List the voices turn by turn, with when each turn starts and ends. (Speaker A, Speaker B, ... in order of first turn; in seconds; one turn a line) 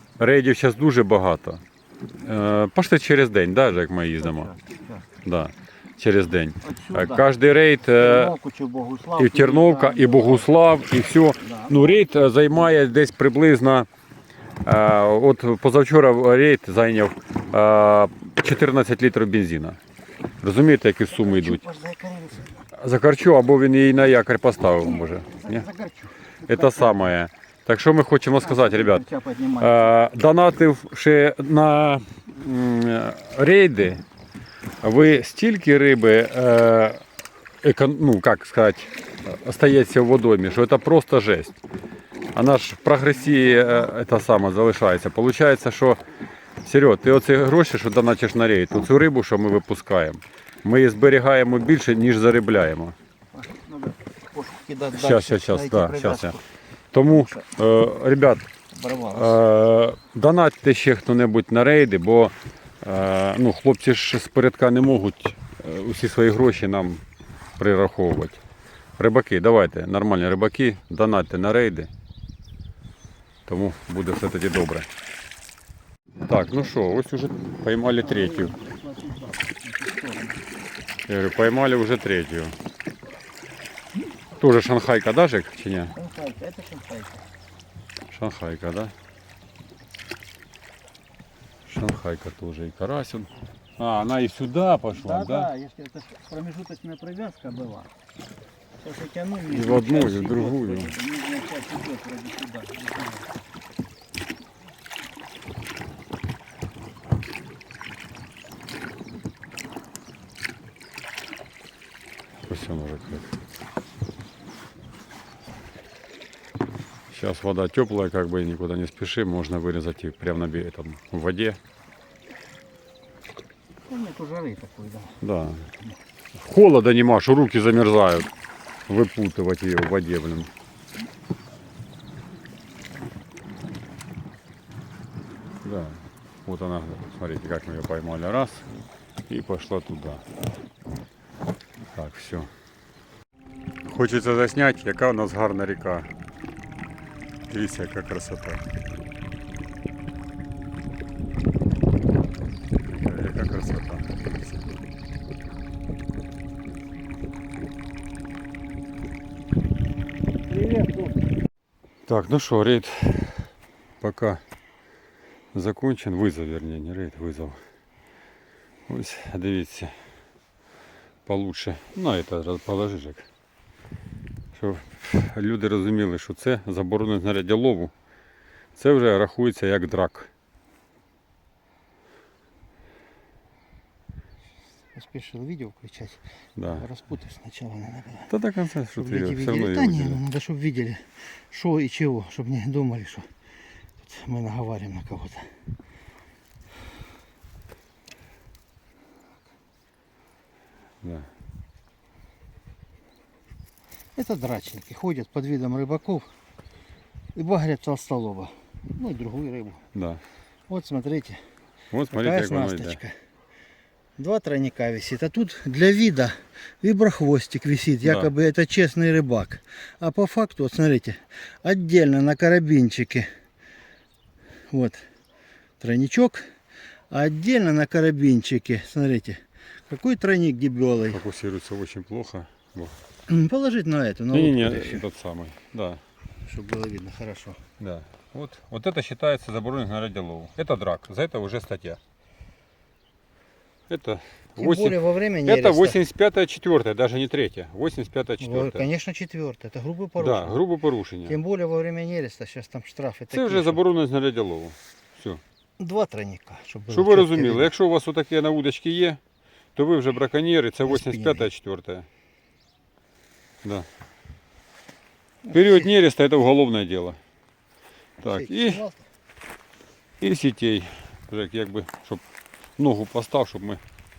Speaker A: 0.2-1.6
Speaker A: 2.2-4.5
Speaker B: 4.2-5.0
Speaker A: 5.2-8.3
Speaker B: 6.6-7.3
Speaker B: 7.9-10.5
Speaker A: 9.2-13.9
Speaker B: 11.4-12.1
Speaker A: 14.6-19.8
Speaker A: 20.4-21.6
Speaker B: 21.1-22.6
Speaker A: 22.8-25.7
Speaker B: 24.9-27.1
Speaker A: 26.4-29.0
Speaker B: 28.4-29.9
Speaker A: 29.6-34.0
Speaker A: 34.8-37.0
Speaker A: 37.6-41.6
Speaker A: 42.3-46.0
Speaker B: 43.2-43.8
Speaker A: 46.6-52.9
Speaker B: 53.3-56.4
Speaker A: 54.9-56.4
Speaker A: 56.9-58.4
Speaker B: 57.1-57.5
Speaker B: 58.7-59.4
Speaker A: 59.1-67.0
Speaker A: 67.6-68.4
Speaker A: 69.0-71.9
Speaker A: 73.5-74.9
Speaker A: 76.3-78.5
Speaker B: 78.0-80.4
Speaker A: 81.1-82.5
Speaker A: 84.4-85.9
Speaker B: 85.9-87.2
Speaker A: 88.1-88.9
Speaker A: 91.7-95.5
Speaker B: 94.9-97.9
Speaker B: 98.8-103.3
Speaker A: 99.5-100.9
Speaker A: 112.5-113.3
Speaker A: 117.1-121.6
Speaker B: 123.8-125.2
Speaker A: 125.2-125.7
Speaker A: 126.3-128.3
Speaker A: 128.9-130.5
Speaker A: 135.6-138.7
Speaker A: 139.3-140.2
Speaker A: 141.9-142.5
Speaker A: 143.8-146.1
Speaker A: 147.5-148.6
Speaker A: 152.8-154.7
Speaker B: 160.5-161.1
Speaker A: 162.1-164.4
Speaker A: 165.5-167.6
Speaker A: 168.9-169.9
Speaker A: 171.2-173.2
Speaker A: 174.5-177.9
Speaker A: 178.8-180.3
Speaker B: 184.9-186.2
Speaker A: 186.6-186.8
Speaker B: 186.7-188.3
Speaker A: 188.3-190.2
Speaker B: 189.0-193.3
Speaker B: 194.0-195.5
Speaker A: 201.0-201.3
Speaker B: 204.1-206.3
Speaker B: 207.3-209.8
Speaker A: 209.9-210.2
Speaker B: 210.7-211.4
Speaker A: 211.9-213.0
Speaker B: 212.1-213.1
Speaker B: 214.2-223.3
Speaker A: 218.0-218.3
Speaker B: 224.7-225.0
Speaker B: 225.8-226.4
Speaker B: 227.1-231.2
Speaker A: 231.1-232.9
Speaker B: 233.3-235.0
Speaker A: 234.3-236.0
Speaker B: 236.4-237.6
Speaker A: 237.8-242.0
Speaker A: 243.9-248.9
Speaker B: 244.6-246.0
Speaker B: 248.4-250.6
Speaker A: 250.2-251.3
Speaker B: 251.2-253.8
Speaker A: 253.3-255.4
Speaker B: 255.8-257.7
Speaker A: 256.9-259.2
Speaker A: 259.8-262.1
Speaker B: 260.8-261.5
Speaker B: 265.4-265.9
Speaker A: 265.5-267.2
Speaker A: 268.2-268.8
Speaker B: 268.2-269.0
Speaker A: 270.2-272.2
Speaker A: 272.8-273.8